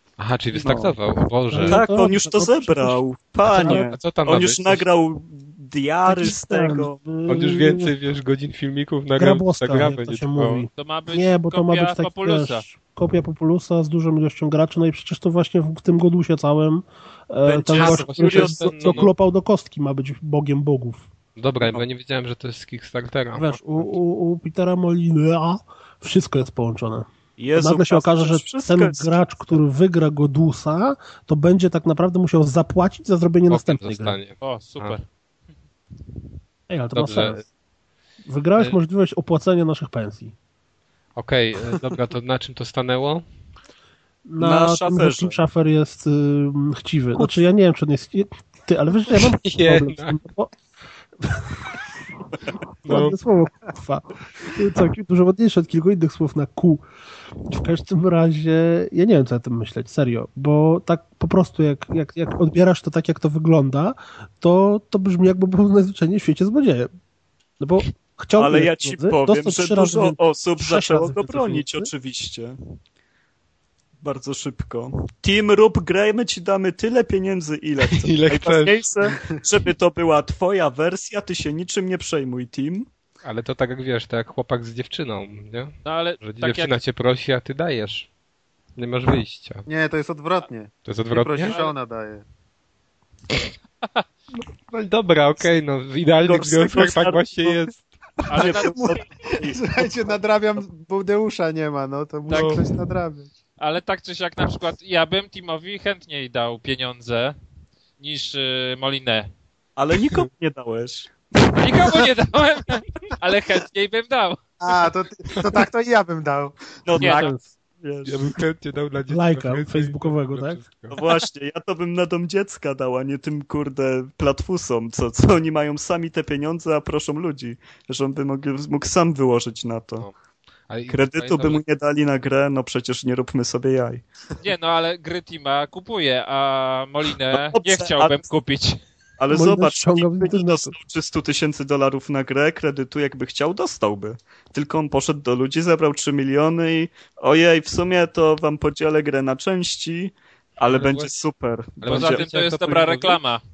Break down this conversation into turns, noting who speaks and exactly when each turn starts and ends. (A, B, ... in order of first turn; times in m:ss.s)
0:00.2-0:01.8 A
0:00.5-0:01.0 B
0:01.5-0:03.0 C
0:01.6-0:07.0 B
0:03.5-0:04.8 A
0:03.5-0:03.9 C
0:06.0-0:07.9 C
0:07.3-0:10.7 A
0:09.2-0:21.1 C
0:10.8-0:12.6 D
0:17.4-0:18.6 B
0:17.7-0:19.1 A
0:21.4-0:23.9 A
0:23.4-0:34.2 C
0:27.4-0:29.6 B
0:33.5-0:35.0 A
0:34.4-0:35.0 D
0:36.7-0:37.4 C
0:37.0-0:37.4 A
0:38.3-0:40.3 C
0:41.2-0:43.3 A
0:44.3-0:50.5 C
0:44.4-0:45.4 B
0:49.1-0:50.2 A
0:51.2-0:51.8 C
0:52.8-0:53.2 A
0:52.8-0:56.8 C
0:57.5-1:06.9 C
1:07.6-1:11.9 C
1:08.4-1:12.6 B
1:14.0-1:22.9 B
1:17.9-1:18.8 A
1:23.2-1:28.1 A
1:25.8-1:26.8 D
1:28.8-1:29.7 A
1:29.7-1:32.2 E
1:30.8-1:31.5 A
1:31.4-1:31.7 D
1:34.7-1:37.9 A
1:36.2-1:37.6 B
1:38.3-1:39.0 D
1:38.3-1:40.1 B
1:38.4-1:43.3 E
1:42.3-1:42.6 D
1:43.6-1:47.4 D
1:48.0-1:49.3 D
1:49.8-1:52.0 B
1:51.6-1:54.8 D
1:54.6-1:56.5 E
1:56.9-1:58.3 B
1:57.0-1:57.3 D
1:57.0-1:57.5 C
1:58.1-2:01.0 A
1:59.1-2:00.6 C
2:00.9-2:10.1 B
2:10.7-2:11.6 A
2:10.9-2:14.0 B
2:14.4-2:18.8 D
2:17.3-2:18.3 B
2:19.2-2:32.9 B
2:19.3-2:20.7 C
2:30.7-2:31.1 A
2:31.8-2:33.2 A
2:31.9-2:33.4 D